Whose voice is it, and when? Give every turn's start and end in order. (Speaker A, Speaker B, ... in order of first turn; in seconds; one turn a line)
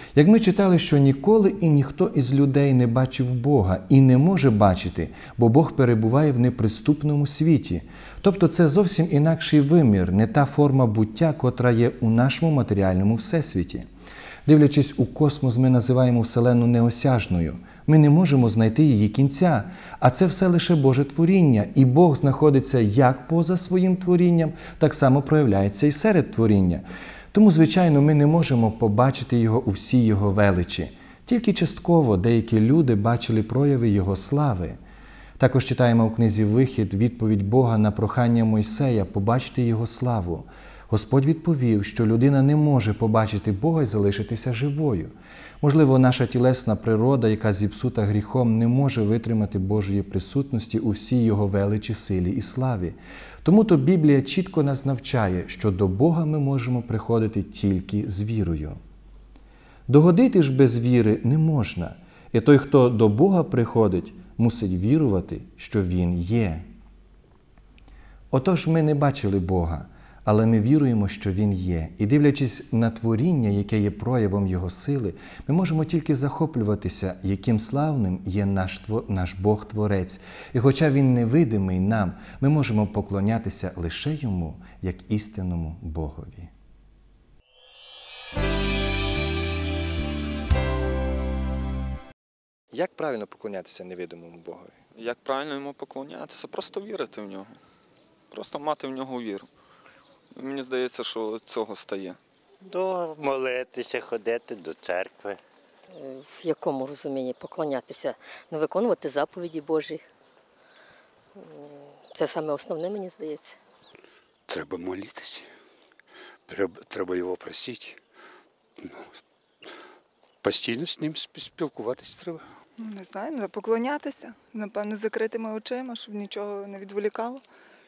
Speaker A: 0.1-13.8
Speaker A: 14.4-34.8
Speaker A: 35.4-58.8
Speaker A: 59.9-66.7
Speaker A: 68.3-86.5
Speaker A: 92.7-94.8
Speaker B: 95.0-97.5
Speaker B: 98.3-99.5
Speaker B: 100.3-102.2
Speaker C: 102.6-105.4
Speaker D: 106.0-110.0
Speaker D: 111.3-113.6
Speaker E: 114.5-115.5
Speaker E: 116.5-118.0
Speaker E: 120.4-122.4
Speaker F: 122.8-127.4